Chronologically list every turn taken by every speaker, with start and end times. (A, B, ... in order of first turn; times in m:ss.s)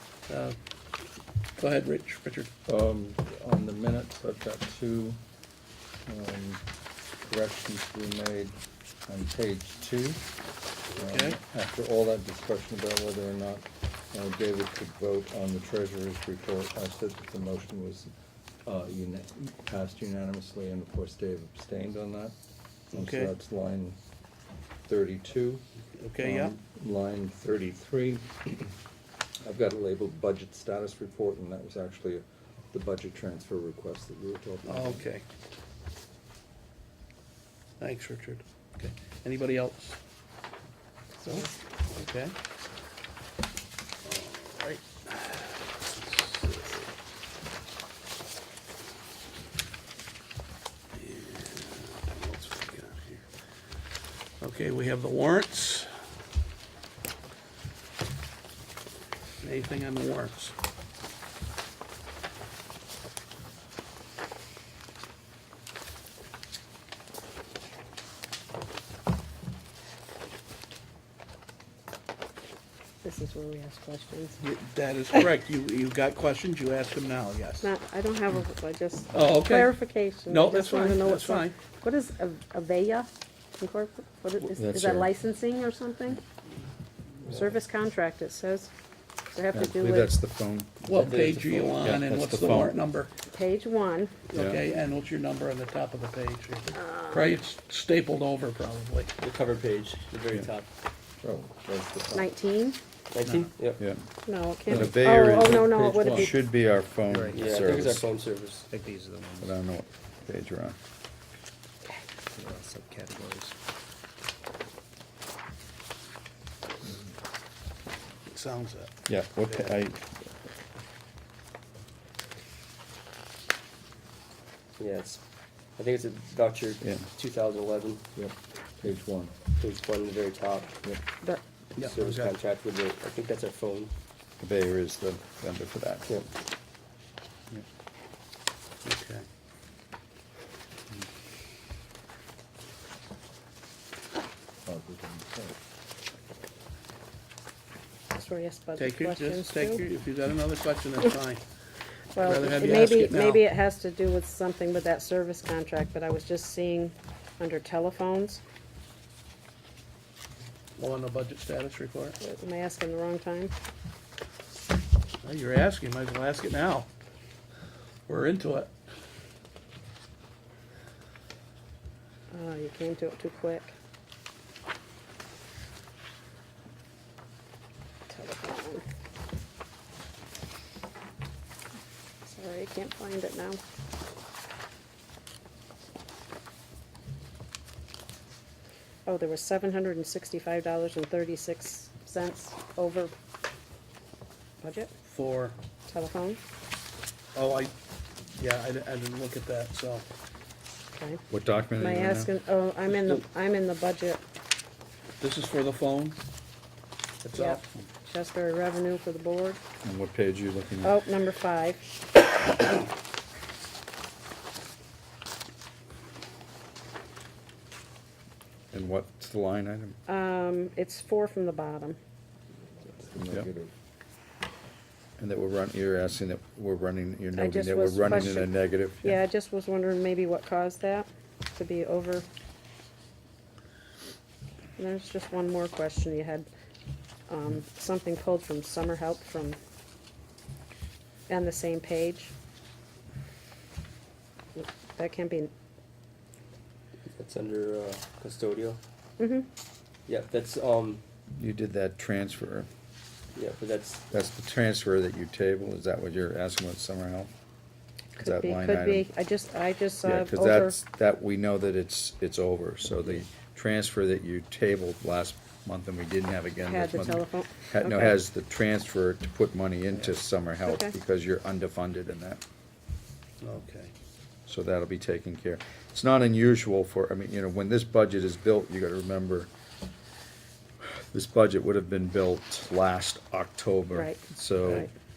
0:00.3-0:00.6 A
0:01.6-0:02.5 A
0:02.7-0:05.2 B
0:06.1-0:06.6 B
0:07.3-0:08.5 B
0:09.1-0:10.2 B
0:11.0-0:11.4 A
0:11.0-0:18.1 B
0:18.6-0:22.3 B
0:22.9-0:23.3 A
0:22.9-0:24.0 B
0:24.9-0:25.6 B
0:25.9-0:26.6 A
0:26.2-0:28.5 B
0:29.4-0:35.0 B
0:34.6-0:35.2 A
0:37.8-0:40.0 A
0:41.2-0:41.5 C
0:41.2-0:42.3 A
0:44.0-0:46.9 A
0:50.9-0:53.2 A
0:54.4-0:55.9 A
0:59.4-1:00.5 A
1:13.0-1:14.4 C
1:14.4-1:17.7 A
1:17.6-1:23.1 C
1:19.1-1:21.5 A
1:23.6-1:26.2 C
1:24.4-1:25.1 D
1:27.2-1:28.7 C
1:27.3-1:27.5 E
1:29.3-1:30.2 C
1:29.5-1:31.2 D
1:30.8-1:33.1 A
1:30.9-1:31.8 E
1:31.8-1:32.8 D
1:33.3-1:34.2 C
1:34.3-1:39.1 A
1:34.3-1:34.6 D
1:36.7-1:37.3 C
1:39.2-1:40.7 E
1:41.2-1:42.2 B
1:42.1-1:42.8 C
1:43.1-1:43.8 E
1:43.2-1:43.5 A
1:43.8-1:44.0 D
1:44.2-1:46.4 C
1:44.6-1:48.0 D
1:45.8-1:46.2 B
1:47.1-1:47.9 F
1:47.3-1:48.7 E
1:48.7-1:49.5 F
1:49.4-1:50.8 D
1:52.3-1:53.5 F
1:58.3-1:58.9 A
1:59.1-2:00.2 D
1:59.5-1:59.7 A
2:04.8-2:05.2 E
2:05.8-2:08.1 E
2:08.8-2:09.3 B
2:09.5-2:10.8 E
2:11.8-2:12.3 A
2:11.8-2:13.9 E
2:14.4-2:16.2 D
2:18.8-2:19.2 A
2:24.7-2:25.5 B
2:28.1-2:29.8 C
2:28.8-2:31.4 A
2:32.1-2:38.4 C
2:32.2-2:33.4 A
2:40.8-2:42.2 A
2:42.2-2:43.5 C
2:45.2-2:46.9 A
2:48.1-2:48.7 A
2:52.3-2:53.7 C
2:58.1-2:58.8 C
3:02.2-3:03.6 C
3:09.0-3:13.1 C
3:14.6-3:14.9 C
3:15.0-3:15.6 A
3:15.9-3:16.4 C
3:17.3-3:17.7 A
3:18.3-3:20.0 A
3:20.9-3:21.2 C
3:21.3-3:22.3 D
3:21.8-3:24.2 C
3:22.9-3:23.2 A
3:25.2-3:26.2 A
3:27.2-3:27.7 A
3:27.3-3:29.6 C
3:29.8-3:31.0 D
3:30.8-3:31.8 C
3:38.7-3:40.0 D
3:40.1-3:42.0 C
3:43.1-3:43.7 B
3:43.2-3:43.5 D
3:45.2-3:49.2 D
3:47.3-3:52.2 C
3:54.8-3:56.5 C
3:57.3-3:59.6 C
4:01.3-4:02.3 C
4:04.6-4:05.5 C
4:07.0-4:08.8 E
4:09.2-4:09.5 C
4:10.0-4:11.0 E
4:11.3-4:12.7 D
4:13.3-4:14.0 E
4:14.1-4:17.3 D
4:18.2-4:19.1 D
4:18.2-4:20.8 C
4:20.0-4:32.4 D
4:26.6-4:28.2 C
4:30.6-4:30.9 C
4:33.4-4:33.9 A
4:34.5-4:39.5 D
4:40.8-4:44.9 D
4:43.9-4:44.9 C